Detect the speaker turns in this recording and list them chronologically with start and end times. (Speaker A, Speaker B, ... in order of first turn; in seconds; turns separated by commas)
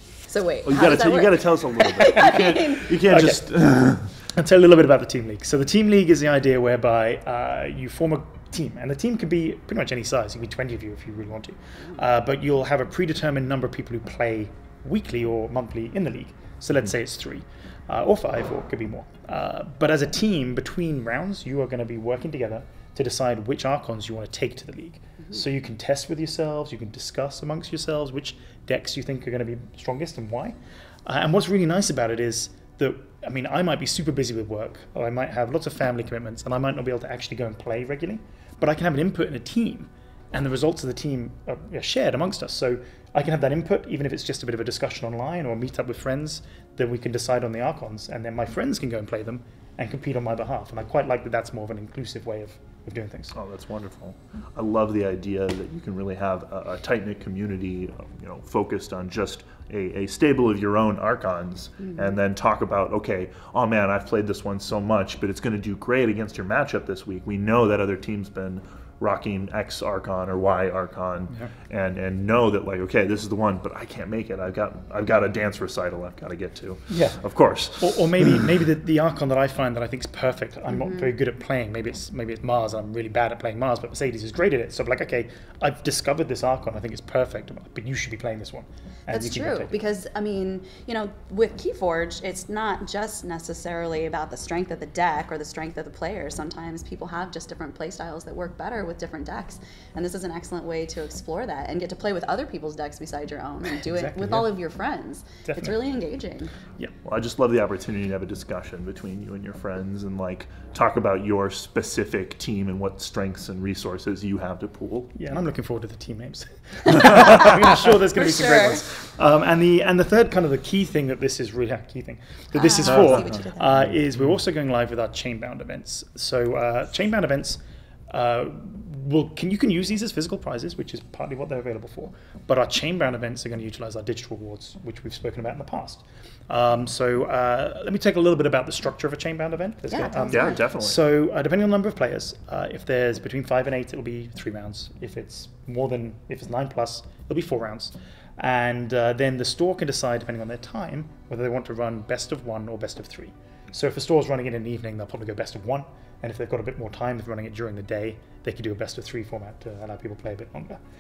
Speaker A: 0.3-2.9, Speaker B: 0.6-4.1, Speaker C: 2.9-53.3, Speaker B: 53.3-78.2, Speaker C: 76.9-77.2, Speaker C: 77.8-89.8, Speaker A: 80.7-81.1, Speaker A: 89.1-106.5, Speaker C: 103.7-104.5, Speaker C: 105.5-105.8, Speaker B: 107.0-115.1, Speaker C: 115.1-160.8, Speaker A: 118.1-118.8, Speaker A: 122.5-123.7, Speaker B: 122.9-123.4, Speaker A: 139.9-140.6, Speaker B: 140.3-141.0